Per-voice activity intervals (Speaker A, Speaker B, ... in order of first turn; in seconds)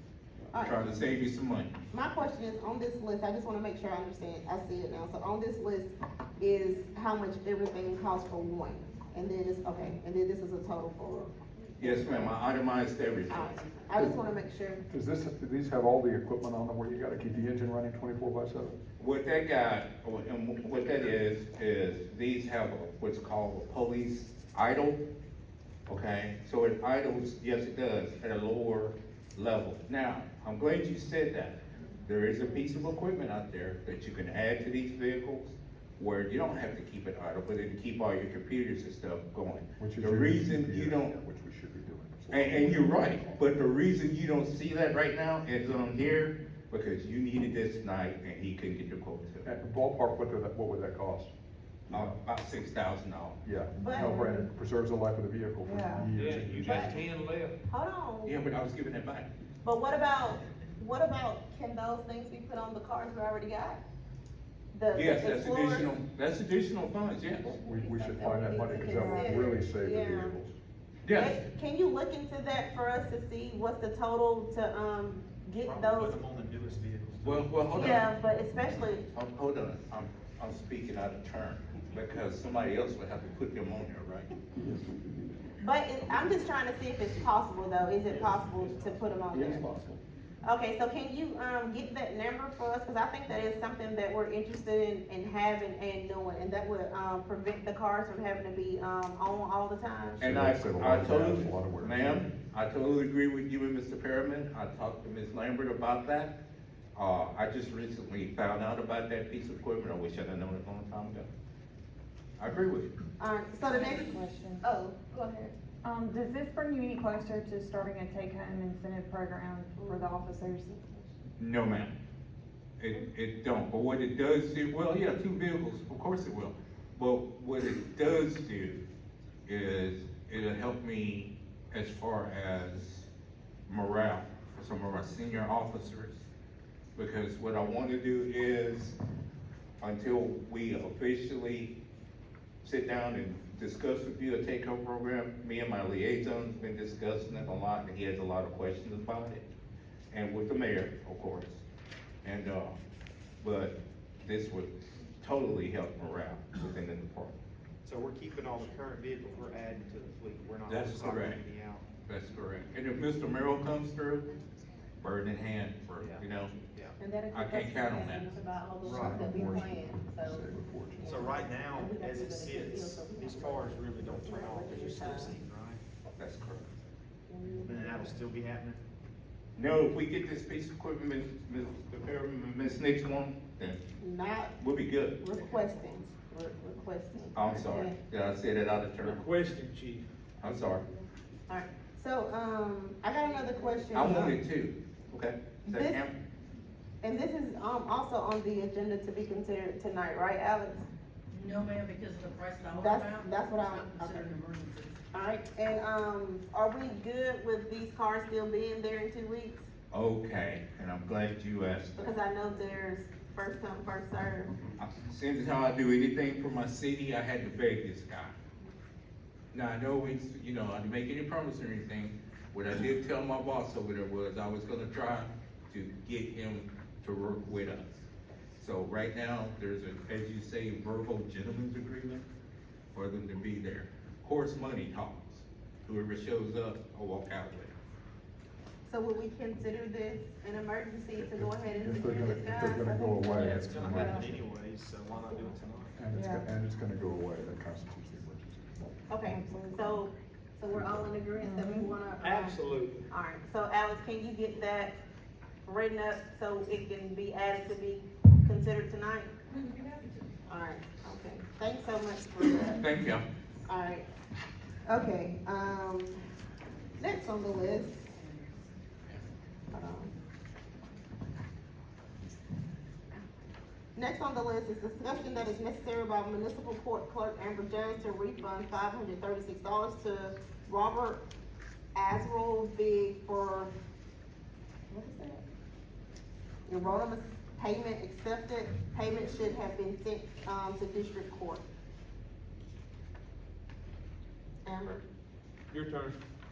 Speaker A: 0.5-0.8, 1.9-12.4, 13.3-14.8, 53.8-54.4, 56.6-56.9, 57.7-58.4, 59.6-63.8, 64.7-66.0, 67.4-70.3, 71.1-76.2, 77.8-79.0, 85.6-89.7, 90.4-100.2, 113.2-115.5, 167.0-175.4, 177.3-178.1, 184.0-184.5, 185.2-188.0, 191.5-194.4, 195.7-196.0, 197.0-200.8, 202.7-204.3, 205.1-209.7, 212.0-214.5, 238.9-244.4, 245.1-245.6, 249.1-255.0, 255.7-259.4, 260.5-262.9, 263.7-264.1, 264.9-266.2, 267.0-268.1, 269.7-270.1, 274.0-281.2, 281.9-283.7, 284.9-285.4, 286.7-291.6, 294.6-295.1
Speaker B: 0.6-1.7, 11.8-13.6, 19.0-25.0, 25.9-41.1, 42.3-49.5, 51.9-53.4, 58.2-59.3, 64.9-67.5, 71.0-71.4, 77.2-78.1, 79.1-84.3, 100.2-106.3, 107.0-111.3, 112.4-112.9, 121.4-121.9, 122.8-128.8, 129.5-133.1, 133.7-136.2, 137.0-139.0, 139.8-141.7, 142.6-149.4, 150.1-151.7, 152.2-152.8, 153.4-157.3, 160.7-161.4, 162.1-164.3, 165.0-166.5, 167.3-168.3, 176.2-176.7, 179.6-183.8, 184.6-185.2, 187.3-189.2, 190.4-190.9, 193.9-196.2, 209.9-212.0, 214.8-218.3, 219.5-228.1, 228.6-232.3, 232.9-237.7, 262.8-263.2
Speaker C: 14.9-18.8, 39.8-43.4, 49.5-51.3, 51.9-52.1, 53.4-57.0, 67.6-70.5, 84.6-84.8, 89.3-90.0, 100.2-102.3, 168.8-171.4, 241.2-244.4, 246.0-249.0
Speaker D: 55.7-56.1, 68.9-69.5, 113.7-114.7, 115.8-121.1, 246.1-246.5, 249.2-250.0, 251.4-252.0
Speaker E: 56.1-57.6, 189.0-190.1, 252.2-253.1, 295.7-296.2
Speaker F: 75.6-78.0, 157.8-161.9, 166.0-167.0, 168.8-169.6, 171.1-175.8, 177.5-178.8, 243.4-246.0
Speaker G: 201.3-205.0, 259.5-260.1